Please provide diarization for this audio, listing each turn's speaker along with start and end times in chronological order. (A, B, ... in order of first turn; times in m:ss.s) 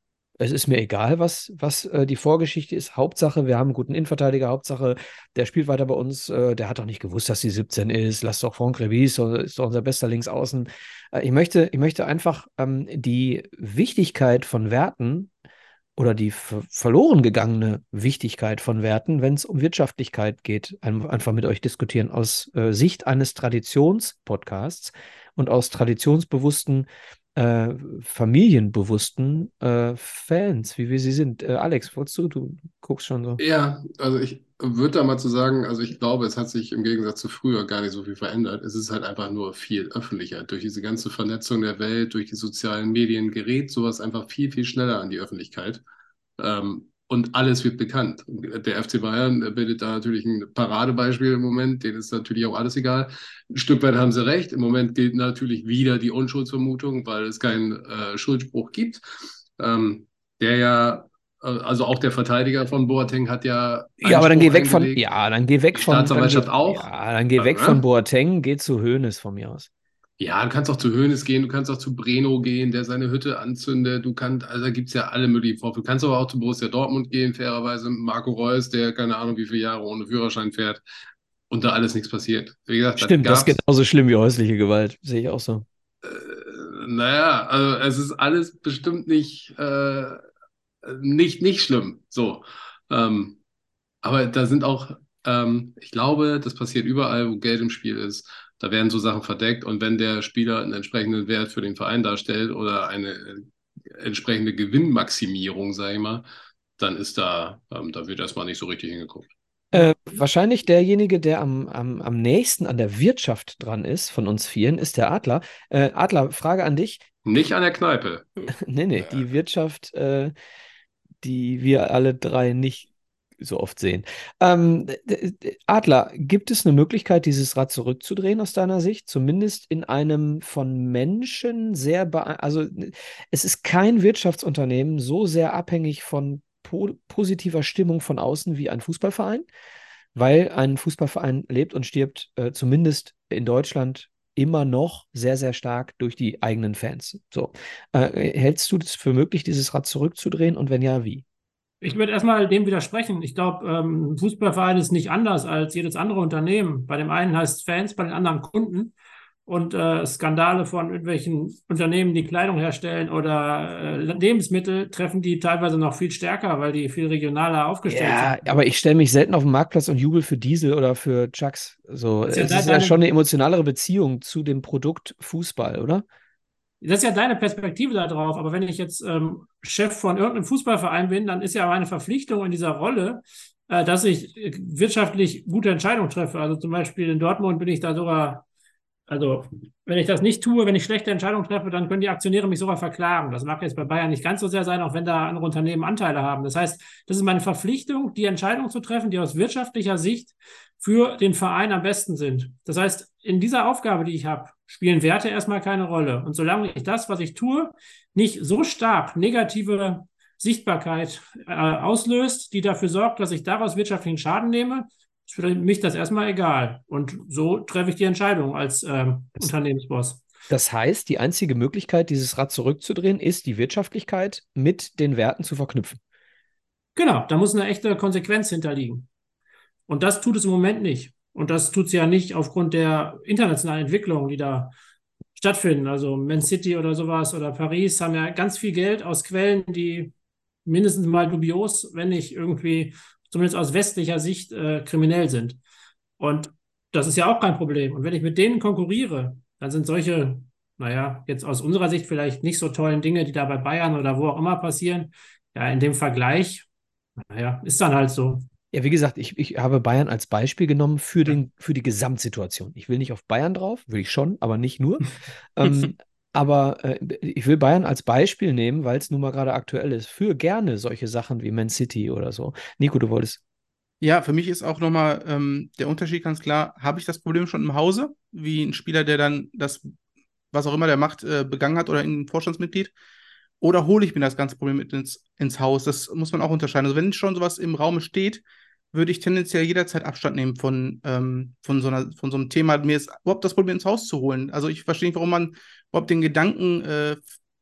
0:00.4-0:15.3 A
0:16.0-0:33.4 A
0:33.4-0:45.8 B
0:46.4-0:59.0 B
0:59.6-1:05.0 B
1:04.0-1:09.7 A
1:05.7-1:07.8 B
1:10.2-1:20.8 B
1:21.5-1:23.6 B
1:23.0-1:25.7 A
1:26.0-1:30.2 B
1:30.8-1:33.4 B
1:34.0-1:46.2 B
1:46.8-1:49.3 B
1:49.7-1:57.1 A
1:57.3-1:58.5 B
1:58.5-2:00.3 A
2:01.2-2:02.9 A
2:03.4-2:19.5 A
2:20.2-2:31.2 A
2:31.8-2:39.0 C
2:39.5-2:48.4 C
2:47.9-2:56.0 A
2:52.3-2:53.0 C
2:56.8-3:08.5 C
3:09.1-3:40.2 C
3:40.5-3:46.0 A
3:47.0-3:49.1 C
3:49.9-3:54.7 C
3:55.4-4:00.1 C
4:00.6-4:05.6 C
4:06.2-4:16.7 C
4:17.3-4:18.5 C
4:18.7-4:33.4 A
4:34.0-4:39.9 D
4:40.5-4:42.9 D
4:43.6-4:57.3 D